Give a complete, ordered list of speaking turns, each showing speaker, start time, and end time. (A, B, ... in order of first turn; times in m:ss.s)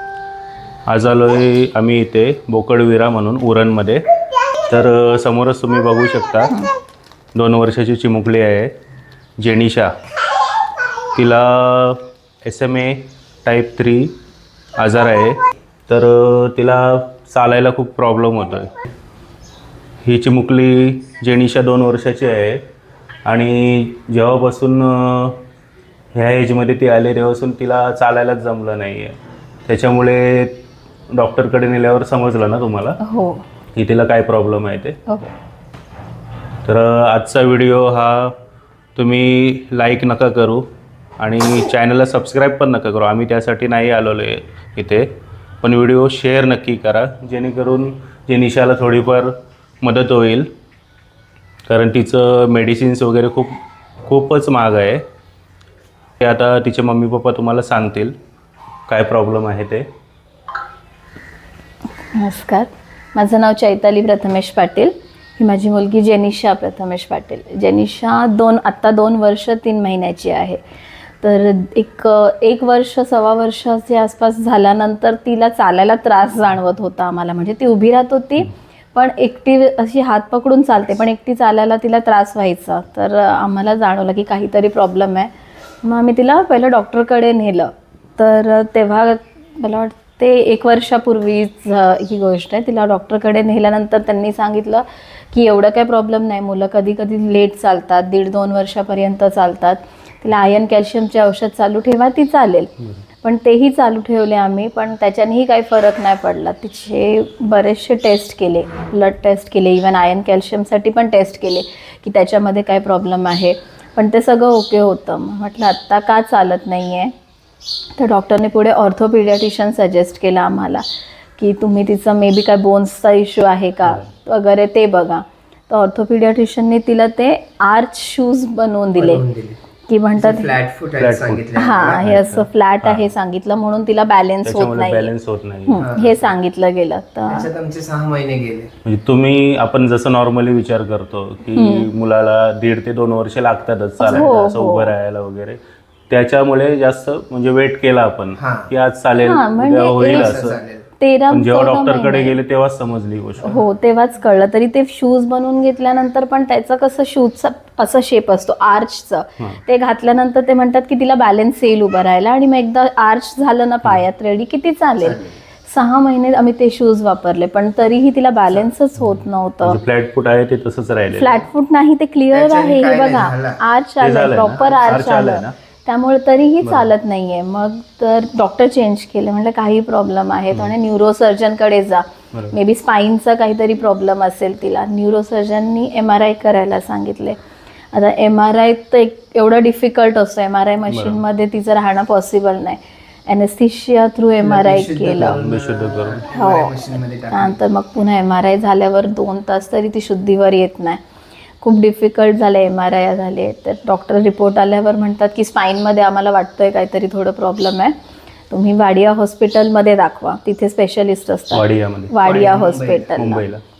0:00.9-0:04.0 A
0:04.7-0:06.5 A
0:07.3-0:08.7 A
0:09.4-0:09.9 A
0:11.1-0:14.1 A
0:14.8-0:18.7 A
0:20.0-0:22.6 A
0:23.2-0:25.4 A
0:26.1-0:33.0 A
0:33.0-0:33.4 B
0:33.7-0:35.0 A
0:36.6-0:38.3 A
0:39.0-0:40.7 A
0:41.2-0:45.1 A
0:45.6-0:50.5 A
0:51.7-0:55.0 A
0:56.2-0:58.1 A
0:58.9-0:59.8 A
1:02.2-1:10.6 B
1:11.2-1:25.3 B
1:25.8-1:42.7 B
1:43.2-1:57.1 B
1:58.0-2:00.8 B
2:01.4-2:09.2 B
2:09.0-2:09.6 C
2:09.9-2:10.6 B
2:10.2-2:12.2 C
2:11.0-2:13.1 A
2:11.5-2:15.1 B
2:14.4-2:16.3 A
2:15.7-2:17.5 B
2:15.8-2:16.1 C
2:17.3-2:18.7 C
2:18.8-2:30.5 A
2:21.5-2:21.9 B
2:24.0-2:24.9 B
2:28.4-2:28.7 C
2:29.2-2:30.5 B
2:30.0-2:30.8 C
2:31.0-2:32.4 B
2:31.3-2:33.6 A
2:33.4-2:49.8 B
2:45.0-2:45.3 C
2:49.0-2:51.4 A
2:51.1-3:07.4 B
2:52.3-2:53.6 C
2:54.0-2:55.5 A
3:07.9-3:15.4 B
3:10.9-3:11.2 A
3:14.4-3:17.6 C
3:15.3-3:16.2 A
3:16.3-3:21.0 B
3:21.6-3:27.9 B
3:28.5-3:33.4 B
3:31.5-3:32.2 A
3:32.2-3:33.2 C
3:33.2-3:33.6 A